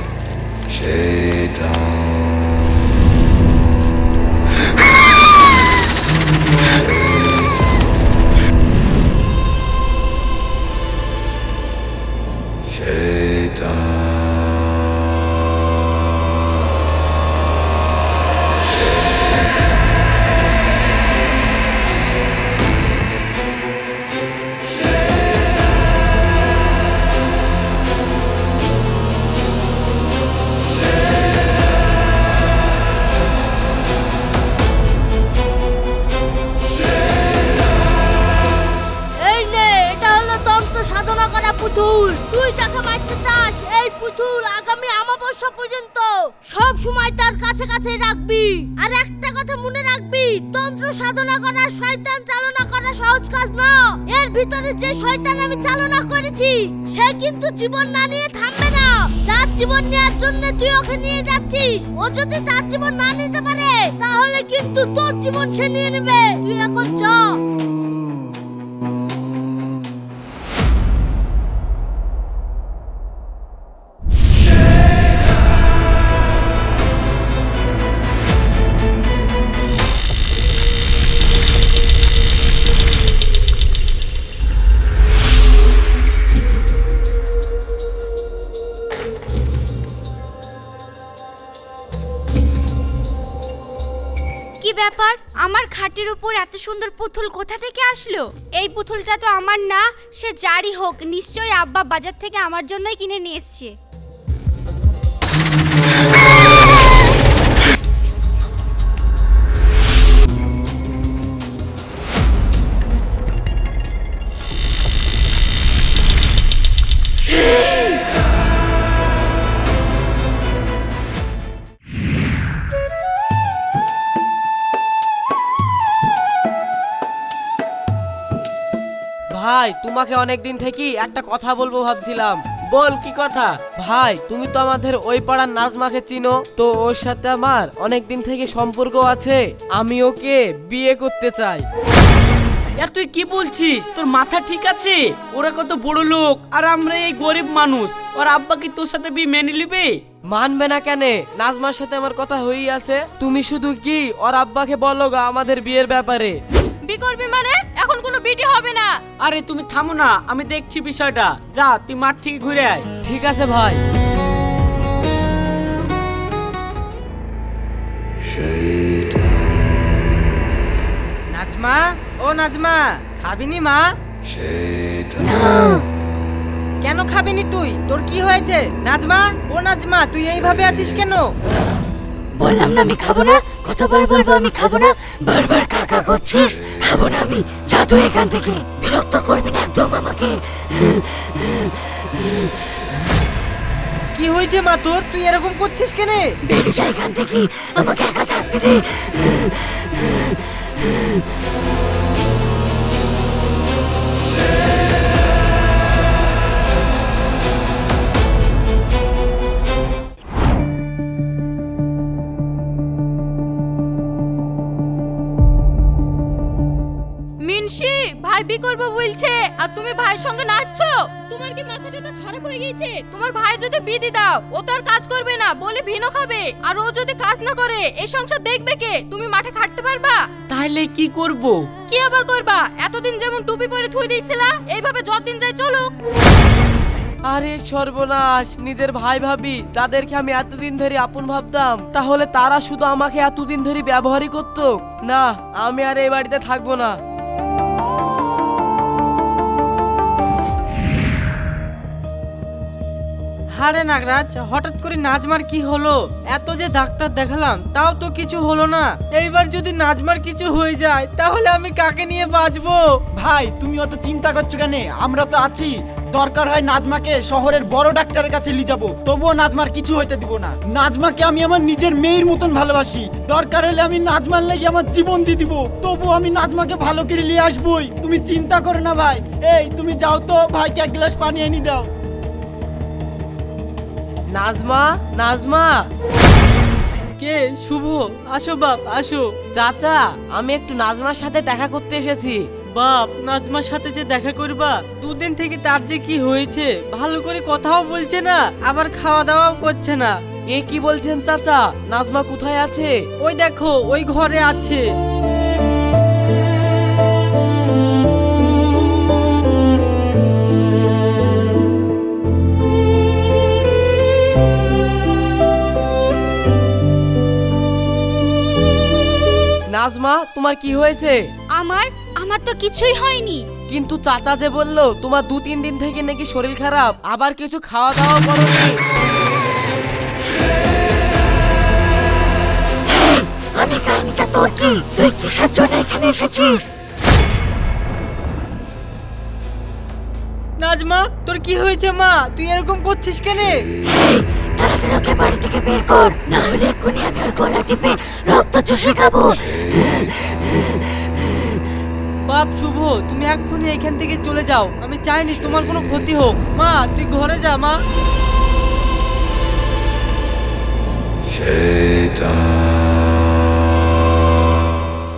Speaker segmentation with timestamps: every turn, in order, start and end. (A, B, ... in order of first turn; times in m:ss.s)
0:39.2-1:07.4 A
1:34.6-1:43.7 B
2:09.3-2:12.4 C
2:12.7-2:13.6 D
2:13.8-2:21.6 C
2:22.8-2:30.0 D
2:30.3-2:36.4 C
2:36.9-2:38.9 E
2:39.2-2:42.8 D
2:43.0-2:43.8 C
2:51.3-2:53.9 F
2:55.2-2:55.8 G
2:56.8-3:01.3 F
3:02.3-3:11.7 G
3:14.1-3:16.3 F
3:16.5-3:19.5 G
3:37.4-3:50.2 E
3:50.5-3:51.6 D
3:51.9-3:55.9 E
3:57.2-4:07.0 C
4:13.5-4:22.8 F
4:23.2-4:41.9 H
4:44.3-4:45.7 C
4:47.2-4:49.3 F
4:49.5-4:52.4 C
4:52.7-5:00.2 F
5:00.5-5:03.0 C
5:03.2-5:04.8 F
5:19.7-5:21.2 C
5:21.5-5:23.5 B
5:23.7-5:28.7 C
5:33.5-5:36.6 G
5:40.6-5:43.6 F
5:43.9-5:50.4 G
5:52.3-5:57.8 F